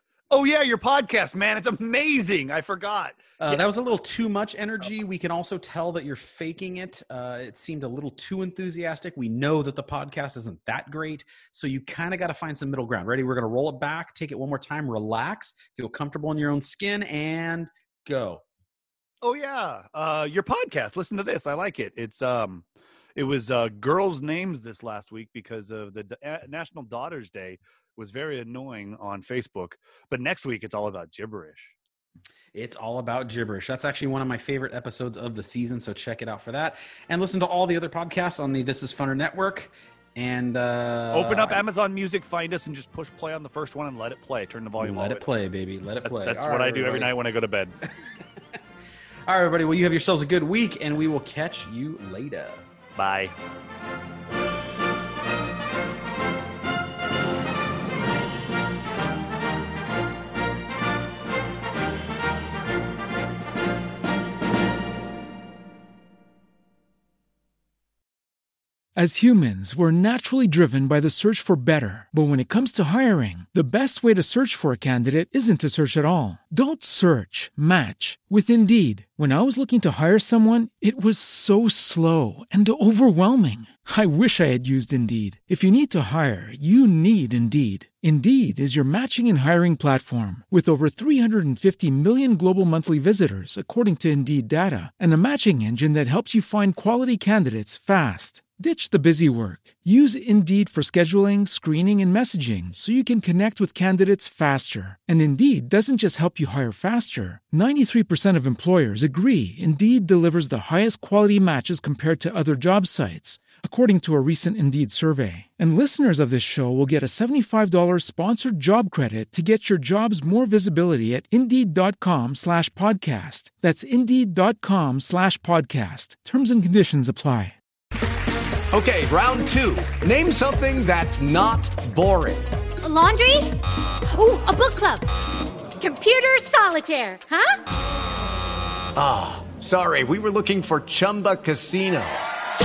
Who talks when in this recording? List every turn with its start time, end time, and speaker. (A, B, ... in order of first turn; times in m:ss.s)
0:00.3-0:03.6 A
0:03.4-0:18.4 B
0:19.2-0:22.6 A
0:23.2-0:31.8 A
0:32.5-0:41.6 B
0:41.1-0:45.2 A
0:44.8-0:47.1 B
0:46.0-0:47.8 A
0:49.3-0:52.6 B
0:53.0-0:53.3 A
1:09.0-2:07.6 C
2:08.7-2:12.5 D
2:12.8-2:13.6 E
2:14.1-2:15.0 E
2:15.8-2:17.6 E
2:18.9-2:22.2 D